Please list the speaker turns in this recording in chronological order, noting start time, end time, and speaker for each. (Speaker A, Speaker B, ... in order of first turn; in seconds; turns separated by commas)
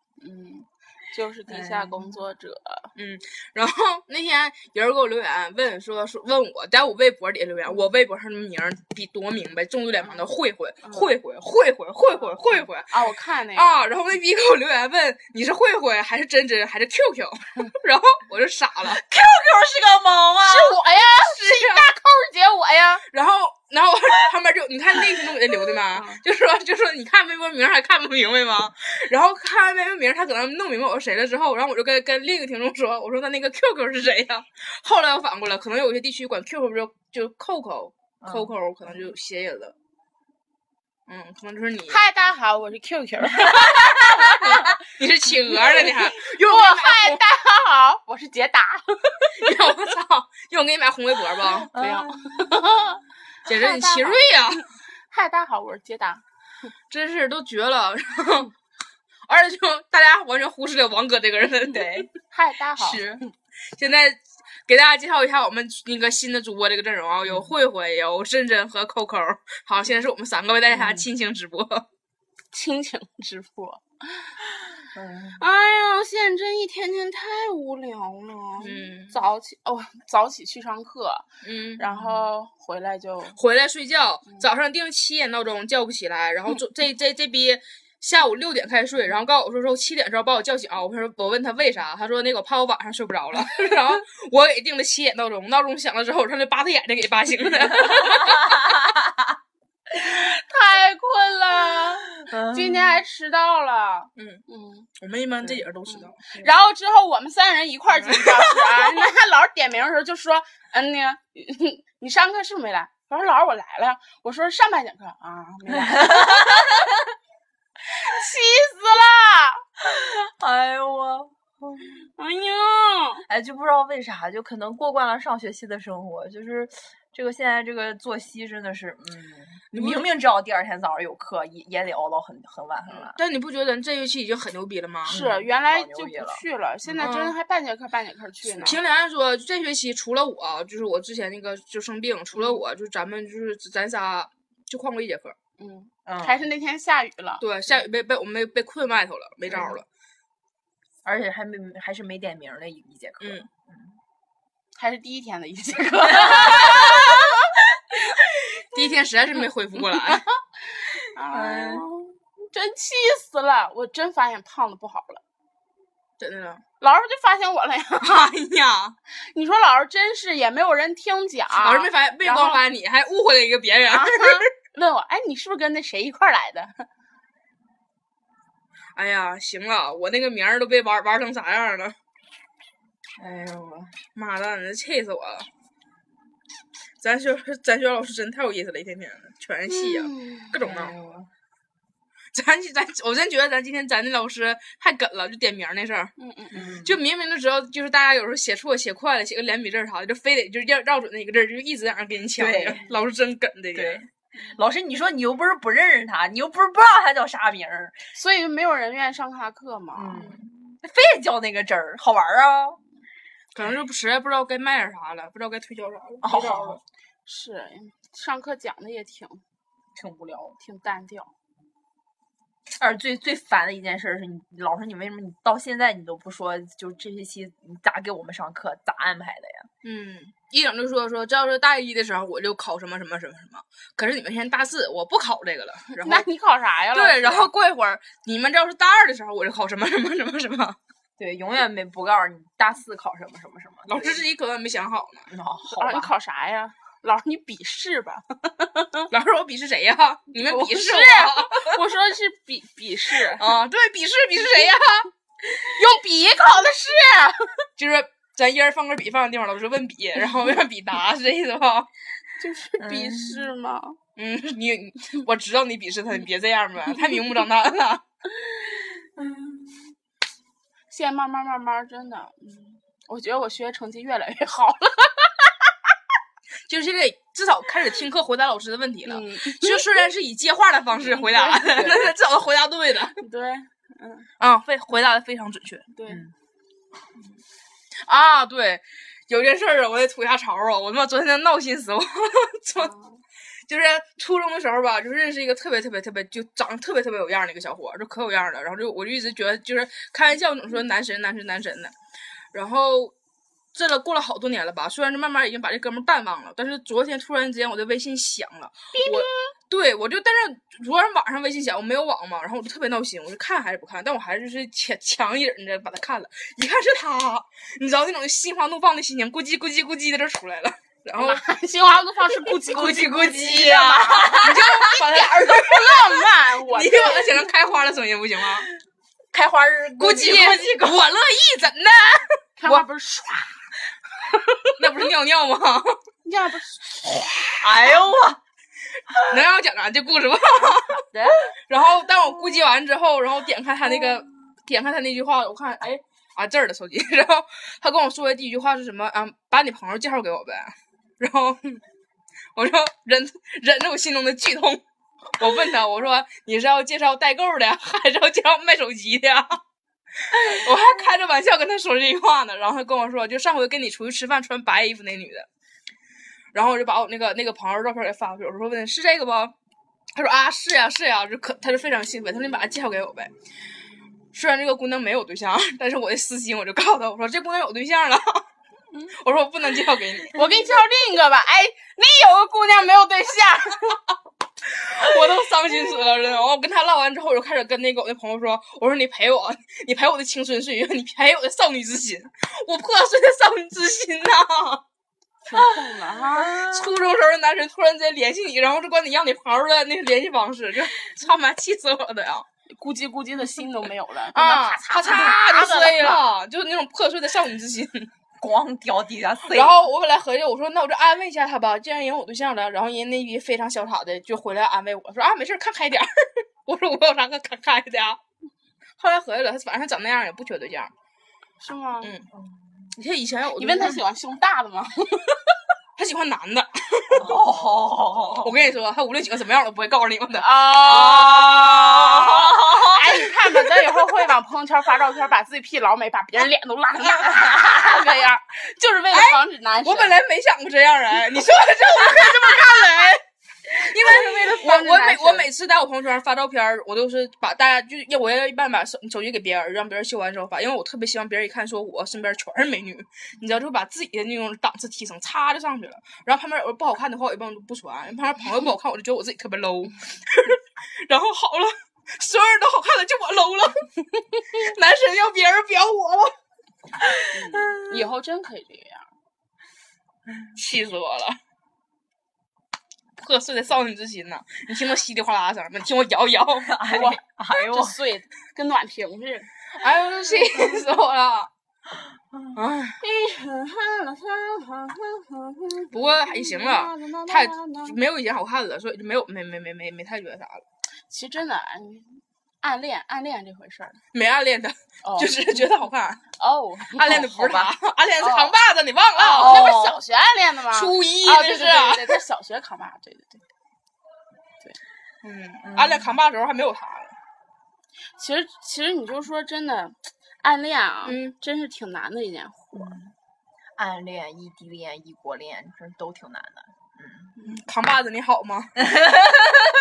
Speaker A: 0.2-2.9, Speaker B: 1.5-2.2, Speaker C: 3.0-12.9, Speaker A: 12.9-13.7, Speaker C: 13.5-19.0, Speaker B: 18.9-20.8, Speaker A: 20.4-23.0, Speaker C: 21.2-21.9, Speaker C: 23.1-39.8, Speaker A: 25.9-26.2, Speaker B: 38.2-38.5, Speaker C: 41.1-42.0, Speaker A: 41.9-44.8, Speaker C: 43.8-47.2, Speaker A: 45.5-49.5, Speaker C: 49.4-51.7, Speaker B: 51.7-52.6, Speaker A: 51.7-54.2, Speaker C: 53.5-54.6, Speaker A: 55.1-56.2, Speaker C: 56.9-58.5, Speaker C: 59.3-62.1, Speaker B: 61.7-62.1, Speaker A: 62.3-63.0, Speaker B: 62.8-63.2, Speaker C: 63.8-71.8, Speaker B: 67.2-67.5, Speaker B: 70.7-71.1, Speaker A: 72.5-74.3, Speaker B: 74.9-75.4, Speaker A: 75.4-81.3, Speaker C: 78.6-79.2, Speaker C: 81.4-81.9, Speaker A: 81.8-83.4, Speaker B: 82.0-82.3, Speaker C: 83.4-98.8, Speaker A: 99.9-104.9, Speaker B: 102.2-103.0, Speaker C: 104.2-104.4, Speaker C: 105.0-106.3, Speaker A: 105.9-116.8, Speaker C: 108.0-108.7, Speaker B: 115.7-117.0, Speaker A: 117.9-119.6, Speaker B: 119.8-122.0, Speaker A: 122.2-123.2, Speaker B: 123.3-133.2, Speaker C: 129.7-130.1, Speaker C: 132.9-135.2, Speaker B: 135.1-137.1, Speaker A: 135.1-138.8, Speaker C: 137.0-137.3, Speaker C: 138.6-145.4, Speaker A: 145.6-147.4, Speaker B: 146.1-146.4, Speaker C: 147.4-149.9, Speaker B: 149.5-149.8, Speaker B: 151.1-154.0, Speaker C: 153.2-153.5, Speaker A: 154.8-157.5, Speaker B: 156.2-157.1, Speaker C: 158.6-160.2, Speaker A: 159.9-165.2, Speaker B: 161.3-161.8, Speaker C: 166.2-166.6, Speaker A: 166.8-168.2, Speaker C: 168.0-169.0, Speaker A: 169.3-172.6, Speaker C: 171.6-174.5, Speaker A: 173.9-176.8, Speaker C: 178.9-181.9, Speaker B: 183.2-183.9, Speaker C: 184.2-185.5, Speaker C: 187.0-190.9, Speaker A: 189.7-190.6, Speaker B: 190.6-191.3, Speaker C: 192.3-204.1, Speaker A: 196.2-196.6, Speaker B: 196.5-197.0, Speaker B: 202.4-202.8, Speaker B: 203.7-208.0, Speaker A: 208.1-210.3, Speaker B: 209.9-212.8, Speaker C: 213.5-216.8, Speaker B: 216.2-216.8, Speaker A: 217.3-219.4, Speaker B: 220.0-220.6, Speaker A: 220.6-221.3, Speaker B: 222.8-229.7, Speaker C: 229.8-236.3, Speaker A: 236.0-237.5, Speaker C: 236.9-240.8, Speaker B: 241.2-244.2, Speaker C: 243.9-245.3, Speaker B: 245.3-246.1, Speaker A: 245.7-249.1, Speaker C: 249.1-251.8, Speaker A: 250.4-253.5, Speaker C: 253.3-255.1, Speaker A: 255.5-257.5, Speaker C: 257.8-261.9, Speaker A: 262.4-264.0, Speaker B: 262.8-263.5, Speaker C: 264.2-268.0, Speaker B: 269.2-269.9, Speaker A: 270.9-275.7, Speaker C: 276.7-283.2, Speaker A: 279.1-279.9, Speaker A: 281.0-281.7, Speaker B: 281.7-282.1, Speaker A: 283.2-284.3, Speaker C: 284.4-285.9, Speaker A: 285.9-286.2, Speaker B: 286.1-286.3, Speaker C: 288.1-292.9, Speaker A: 292.8-293.2, Speaker C: 293.7-301.9, Speaker C: 302.5-303.1, Speaker C: 303.7-321.4, Speaker A: 308.9-309.5, Speaker A: 321.2-327.4, Speaker B: 322.7-324.8, Speaker C: 324.4-326.1, Speaker C: 326.7-328.7, Speaker B: 329.3-331.0, Speaker C: 330.0-332.9, Speaker A: 332.6-333.6, Speaker A: 334.3-334.7, Speaker C: 334.8-336.0, Speaker A: 336.2-337.3, Speaker B: 337.6-338.4, Speaker B: 339.1-339.4, Speaker C: 339.3-341.0, Speaker A: 340.6-341.4, Speaker C: 341.7-351.8, Speaker C: 352.6-354.8, Speaker C: 355.4-359.6, Speaker C: 360.3-365.5, Speaker C: 366.5-369.5, Speaker C: 370.2-373.3, Speaker C: 374.3-378.4, Speaker C: 379.1-380.4, Speaker A: 380.3-384.0, Speaker C: 384.7-394.8, Speaker A: 395.5-396.6, Speaker B: 396.5-396.9, Speaker C: 396.6-402.5, Speaker A: 402.7-406.2, Speaker C: 404.3-408.1, Speaker B: 408.4-409.9, Speaker C: 409.5-418.2, Speaker C: 419.0-420.9, Speaker A: 421.6-422.1, Speaker C: 422.0-422.3, Speaker B: 422.3-422.9, Speaker C: 422.9-424.0, Speaker A: 423.6-425.4, Speaker C: 426.0-427.4, Speaker B: 427.1-428.6, Speaker C: 428.4-432.6, Speaker A: 430.4-440.2, Speaker B: 431.2-433.2, Speaker C: 439.1-463.9, Speaker A: 443.9-445.5, Speaker C: 464.4-466.3, Speaker A: 467.3-469.1, Speaker B: 467.5-467.8, Speaker C: 470.6-471.4, Speaker C: 473.2-476.7, Speaker B: 476.6-477.9, Speaker A: 476.9-479.5, Speaker C: 479.8-481.5, Speaker C: 482.6-483.0, Speaker A: 483.0-488.0, Speaker C: 485.9-490.6, Speaker A: 491.1-494.0, Speaker C: 494.1-496.2, Speaker A: 495.0-495.6, Speaker A: 496.4-497.4, Speaker C: 496.9-499.7, Speaker B: 497.1-497.7, Speaker A: 498.2-498.5, Speaker A: 499.2-503.4, Speaker B: 499.4-500.0, Speaker C: 500.7-502.2, Speaker C: 505.2-507.1, Speaker B: 505.6-506.1, Speaker A: 508.2-513.0, Speaker C: 511.1-511.4, Speaker B: 512.7-513.1, Speaker B: 513.8-517.4, Speaker C: 517.4-518.9, Speaker B: 518.8-519.6